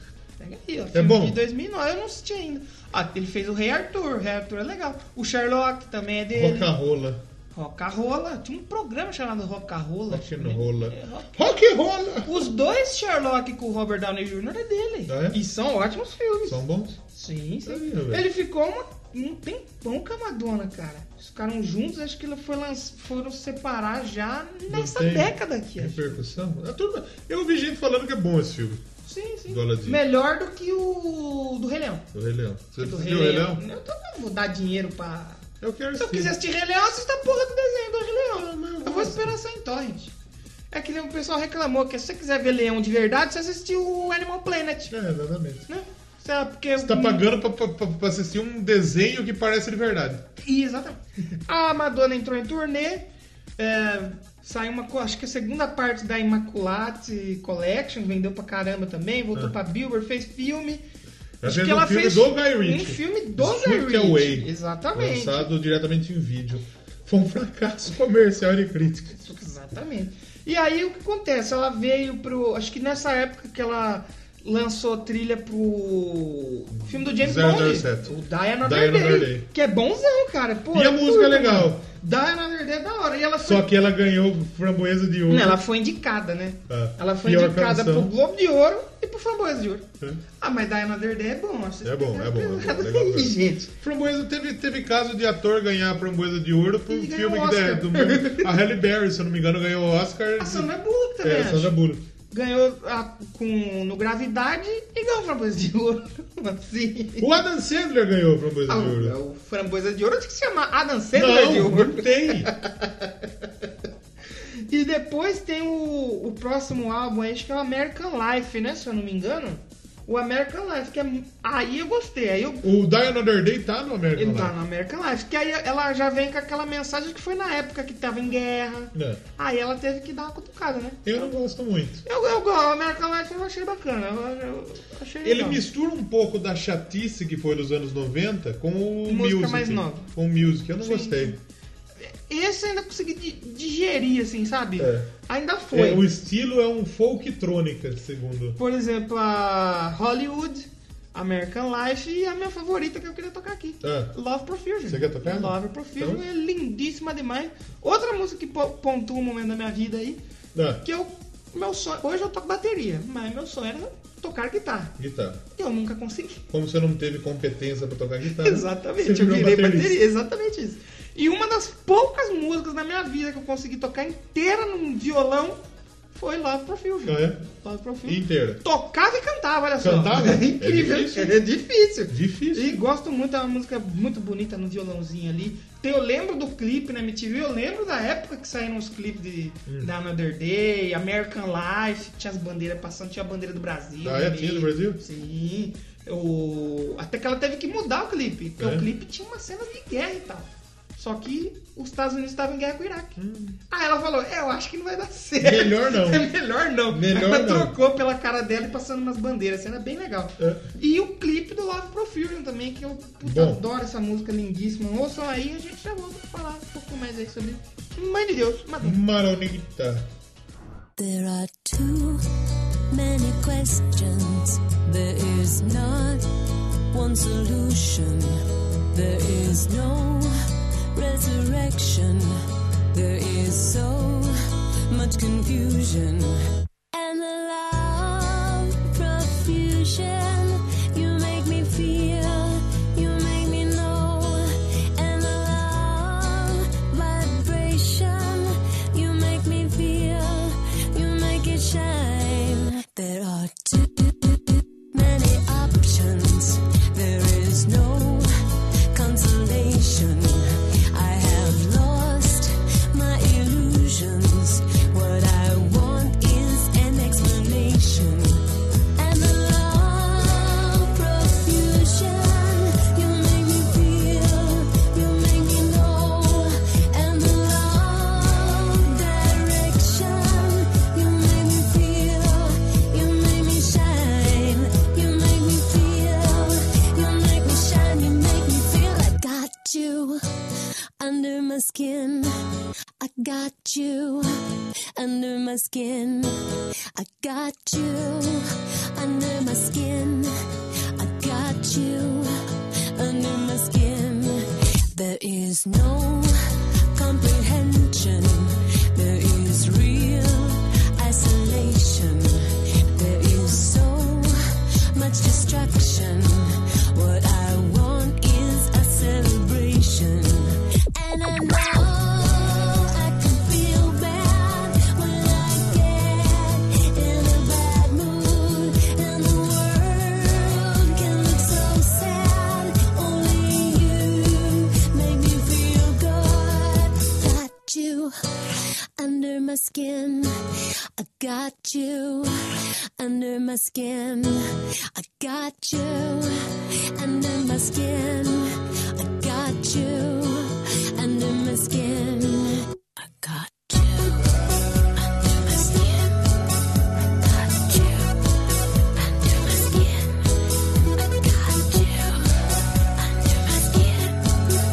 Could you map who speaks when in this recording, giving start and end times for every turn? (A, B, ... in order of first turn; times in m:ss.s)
0:00.4-0:06.7 A
0:00.9-0:01.4 B
0:06.3-0:07.2 B
0:07.5-0:11.5 A
0:10.1-0:12.5 B
0:12.2-0:26.3 A
0:15.1-0:15.4 B
0:16.4-0:17.0 B
0:17.6-0:18.3 B
0:24.7-0:28.8 B
0:29.0-0:32.1 A
0:29.5-0:30.0 B
0:32.1-0:33.6 B
0:32.8-0:40.1 A
0:35.6-0:36.4 B
0:38.3-0:39.4 B
0:40.7-0:45.0 A
0:44.9-0:45.7 B
0:45.7-0:47.2 A
0:46.8-0:50.2 B
0:50.4-0:53.1 A
0:53.6-1:00.8 A
1:01.4-1:09.2 B
1:01.4-1:05.5 A
1:09.1-1:23.7 A
1:16.7-1:19.5 B
1:20.7-1:21.8 B
1:23.4-1:25.6 B
1:25.3-1:29.9 A
1:26.7-1:28.2 B
1:30.4-1:33.7 A
1:31.8-1:42.0 B
1:36.9-1:38.6 A
1:40.4-1:41.8 A
1:42.3-1:47.3 A
1:47.2-1:49.2 B
1:48.7-1:53.4 A
1:51.1-1:52.5 B
1:54.7-2:02.6 A
2:02.6-2:04.6 B
2:04.2-2:11.3 A
2:08.9-2:09.2 B
2:11.0-2:12.0 B
2:12.0-2:15.6 A
2:15.2-2:21.4 B
2:19.1-2:20.1 A
2:20.8-2:21.4 A
2:22.0-2:26.0 A
2:24.8-2:25.1 B
2:25.7-2:28.6 B
2:28.6-2:40.2 A
2:33.8-2:34.1 B
2:34.9-2:36.2 B
2:40.6-2:40.8 B
2:40.8-2:45.0 A
2:45.0-2:45.4 B
2:45.6-2:46.4 A
2:46.5-2:50.0 B
2:48.4-2:55.6 A
2:56.1-3:39.0 A
2:57.1-2:57.4 B
2:58.0-2:58.6 B
2:59.8-3:01.4 B
3:02.1-3:02.8 B
3:14.0-3:15.0 B
3:18.6-3:18.9 B
3:23.2-3:23.6 B
3:25.4-3:26.3 B
3:26.9-3:27.7 B
3:33.2-3:33.6 B
3:38.8-3:40.1 B
3:41.0-3:42.2 C
3:42.9-3:46.3 C
3:46.9-3:50.3 C
3:50.9-3:52.4 C
3:52.9-3:54.4 C
3:54.9-3:56.4 C
3:56.9-4:18.3 C
4:18.9-4:28.4 C
4:29.0-4:50.2 C
4:51.0-4:52.3 C
4:53.0-4:54.4 C
4:55.0-4:56.4 C
4:57.0-5:00.3 C
5:01.0-5:02.4 C
5:03.0-5:06.3 C
5:07.0-5:14.4 C
5:14.9-5:40.3 C
5:41.0-5:42.4 C
5:43.0-5:54.4 C
5:55.0-5:56.2 C
5:57.2-5:58.2 C
5:59.0-6:00.4 C
6:01.0-6:02.4 C
6:03.0-6:04.4 C